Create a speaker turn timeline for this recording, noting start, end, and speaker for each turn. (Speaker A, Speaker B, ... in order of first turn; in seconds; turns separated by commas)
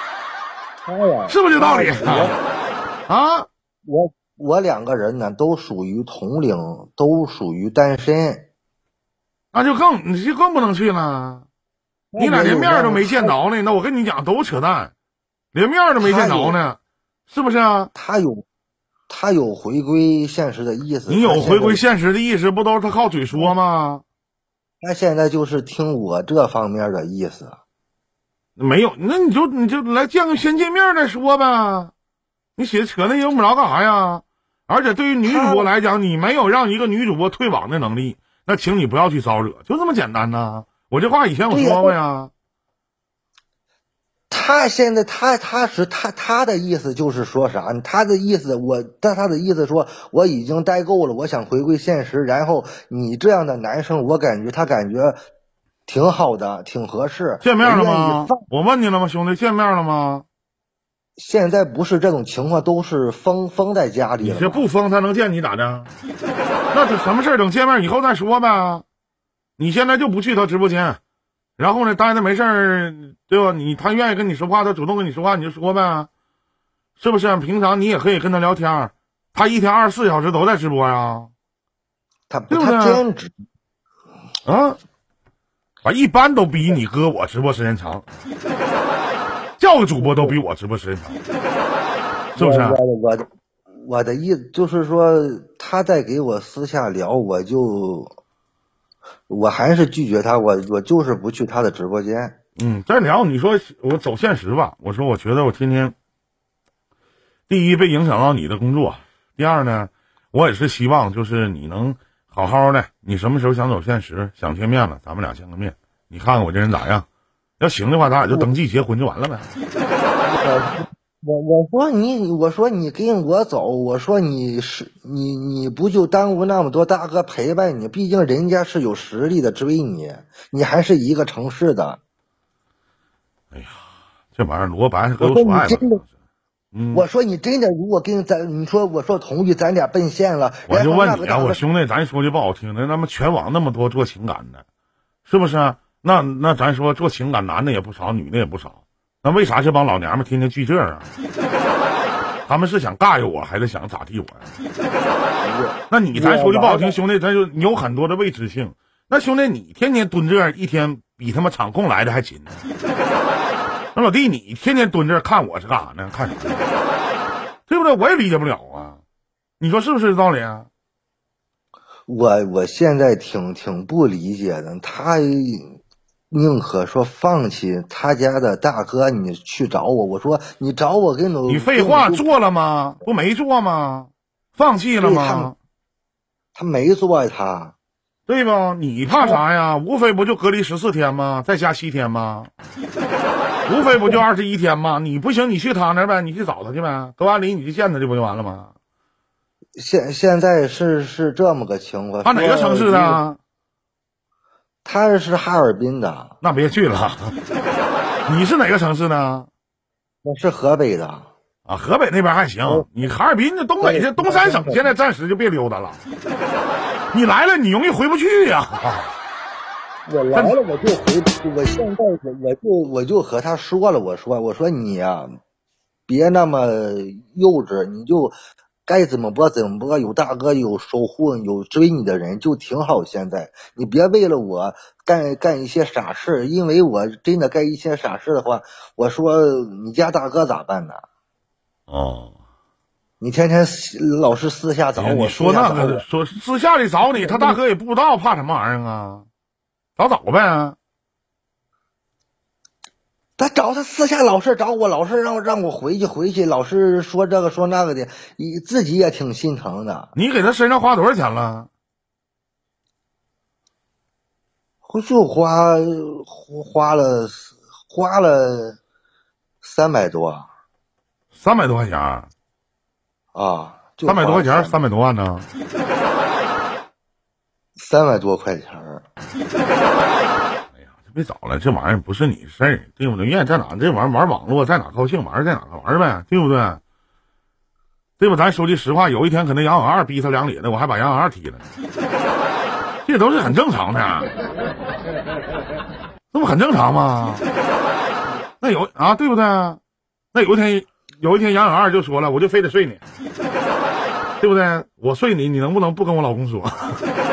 Speaker A: 0.8-2.4, Speaker B: 1.3-2.4, Speaker B: 3.1-3.5, Speaker A: 3.9-8.5, Speaker B: 9.5-11.5, Speaker A: 12.1-13.3, Speaker B: 12.2-14.9, Speaker B: 15.5-17.9, Speaker A: 16.0-16.6, Speaker A: 17.9-18.4, Speaker A: 19.1-21.8, Speaker B: 21.1-24.0, Speaker A: 24.8-27.6, Speaker B: 28.6-31.9, Speaker B: 32.6-42.3, Speaker A: 35.2-35.7, Speaker A: 41.5-42.0, Speaker A: 44.3-55.2, Speaker A: 55.9-58.4, Speaker B: 57.4-60.2, Speaker A: 61.2-64.7, Speaker B: 64.2-65.9, Speaker B: 66.7-68.8, Speaker B: 69.6-71.0, Speaker B: 71.6-76.1, Speaker B: 77.0-81.3, Speaker A: 82.3-83.3, Speaker B: 82.5-83.0, Speaker B: 84.5-84.8, Speaker B: 85.8-88.1, Speaker B: 89.6-91.2, Speaker A: 90.0-90.4, Speaker B: 92.3-92.8, Speaker A: 92.4-93.3, Speaker A: 93.8-98.1, Speaker A: 99.3-102.4, Speaker B: 102.6-105.9, Speaker B: 107.5-117.1, Speaker B: 117.6-119.5, Speaker A: 120.3-132.0, Speaker B: 133.5-133.8, Speaker B: 134.3-136.0, Speaker A: 135.2-136.0, Speaker B: 136.7-137.1, Speaker A: 136.9-141.6, Speaker B: 140.7-144.6, Speaker B: 145.2-151.1, Speaker B: 152.5-154.5, Speaker A: 155.4-157.0, Speaker B: 155.9-162.6, Speaker B: 163.9-166.6, Speaker B: 167.7-169.0, Speaker B: 169.6-170.7, Speaker A: 172.1-175.8, Speaker A: 176.3-182.3, Speaker B: 181.5-185.6, Speaker A: 185.0-185.5, Speaker A: 186.6-187.8, Speaker B: 188.3-192.5, Speaker B: 193.7-198.7, Speaker A: 199.8-203.2, Speaker B: 202.2-203.4, Speaker A: 204.8-206.4, Speaker B: 206.4-207.4, Speaker B: 208.3-209.5, Speaker A: 210.2-211.3, Speaker B: 211.7-216.0, Speaker A: 212.7-212.9, Speaker A: 213.8-214.9, Speaker B: 217.1-219.1, Speaker A: 220.1-225.3, Speaker A: 226.1-228.3, Speaker A: 228.9-241.0, Speaker B: 241.9-242.3, Speaker A: 243.2-246.1, Speaker B: 245.0-249.3, Speaker A: 247.1-247.6, Speaker B: 250.0-250.8, Speaker A: 253.4-260.1, Speaker B: 260.2-261.7, Speaker A: 264.9-268.8, Speaker A: 269.6-270.5, Speaker B: 271.4-272.3, Speaker A: 273.3-274.8, Speaker B: 274.0-275.5, Speaker A: 277.8-279.1, Speaker B: 280.8-286.8, Speaker B: 288.2-291.6, Speaker B: 293.1-294.3, Speaker B: 296.3-297.5, Speaker B: 298.6-299.8, Speaker B: 300.3-303.0, Speaker B: 304.4-307.0